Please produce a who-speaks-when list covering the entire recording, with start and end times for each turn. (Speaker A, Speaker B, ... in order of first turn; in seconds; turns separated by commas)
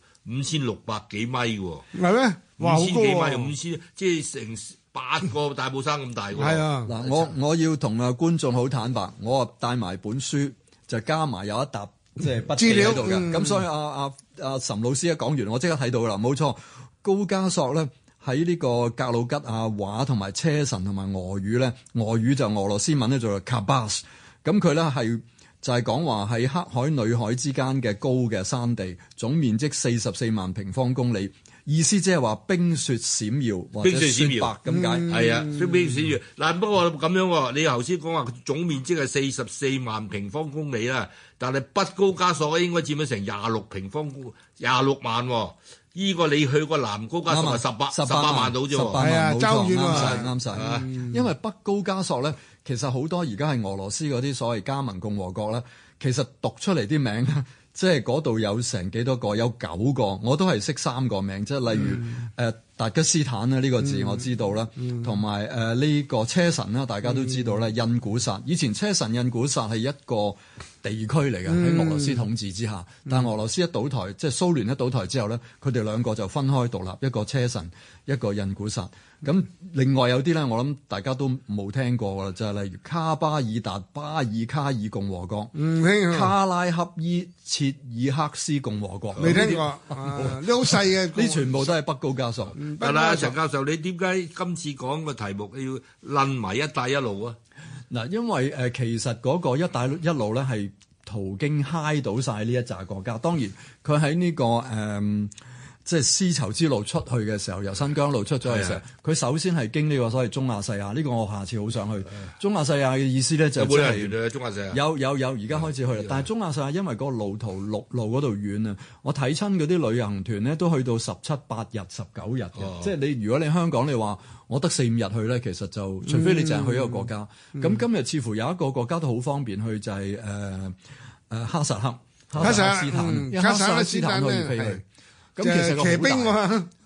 Speaker A: 0.2-1.9, Speaker B: 1.9-3.5, Speaker A: 2.6-7.3, Speaker B: 6.4-7.0, Speaker C: 6.8-35.2, Speaker B: 12.6-13.6, Speaker A: 33.8-34.5, Speaker B: 34.7-35.9, Speaker A: 35.1-49.0, Speaker C: 47.3-85.5, Speaker B: 49.0-50.3, Speaker A: 49.9-50.9, Speaker B: 50.9-51.1, Speaker B: 71.5-72.2, Speaker B: 85.5-86.3, Speaker C: 86.1-92.6, Speaker B: 89.2-91.7, Speaker B: 92.6-93.4, Speaker A: 92.8-97.4, Speaker C: 97.9-105.3, Speaker C: 105.8-114.2, Speaker A: 108.5-108.8, Speaker A: 113.6-114.8, Speaker C: 114.7-130.8, Speaker A: 116.0-116.2, Speaker A: 122.6-122.9, Speaker B: 126.1-127.1, Speaker C: 131.3-134.8, Speaker B: 132.4-134.8, Speaker C: 135.4-136.4, Speaker B: 135.4-136.7